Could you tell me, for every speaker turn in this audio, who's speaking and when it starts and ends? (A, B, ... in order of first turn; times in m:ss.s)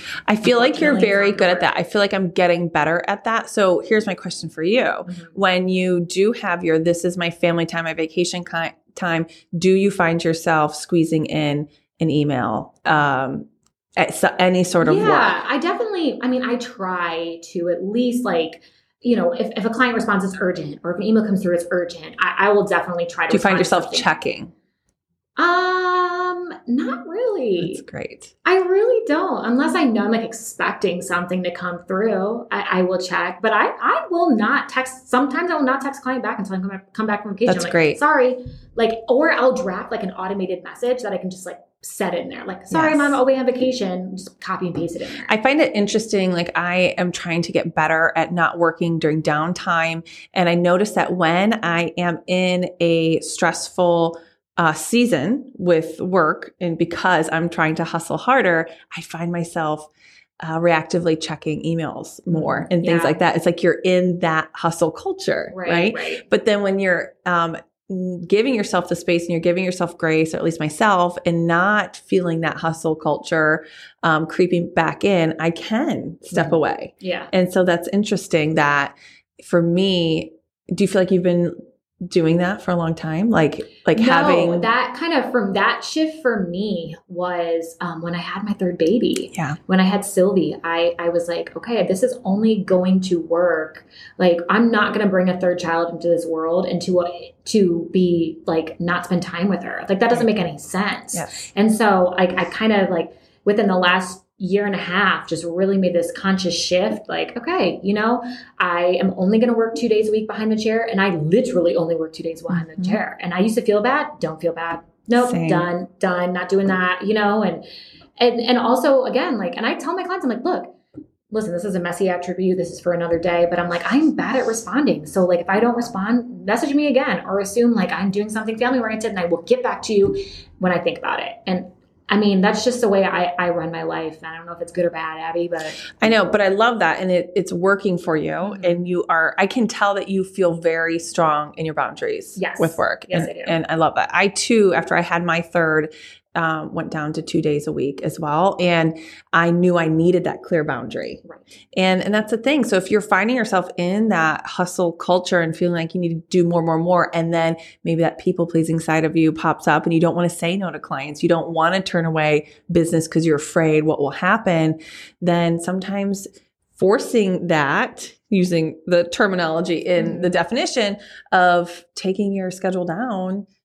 0:00.3-0:15.4 A
0:00.4-0:01.7 B
0:05.1-0:05.3 B
0:14.8-0:24.1 B
0:23.3-0:24.5 A
0:25.4-0:27.8 B
0:27.6-0:28.3 A
0:28.4-0:45.3 B
0:37.5-0:38.0 A
0:42.7-0:43.2 A
0:45.3-0:59.9 A
1:00.4-1:24.7 A
1:02.3-1:03.2 B
1:05.5-1:06.2 B
1:16.3-1:17.3 B
1:23.9-1:57.6 B
1:41.1-1:41.5 A
1:52.5-1:53.0 A
1:55.2-1:55.7 A
1:58.2-2:00.8 B
2:01.3-2:15.8 B
2:16.0-2:31.2 A
2:18.4-2:18.8 B
2:22.4-2:23.6 B
2:31.7-2:53.5 A
2:50.0-2:50.4 B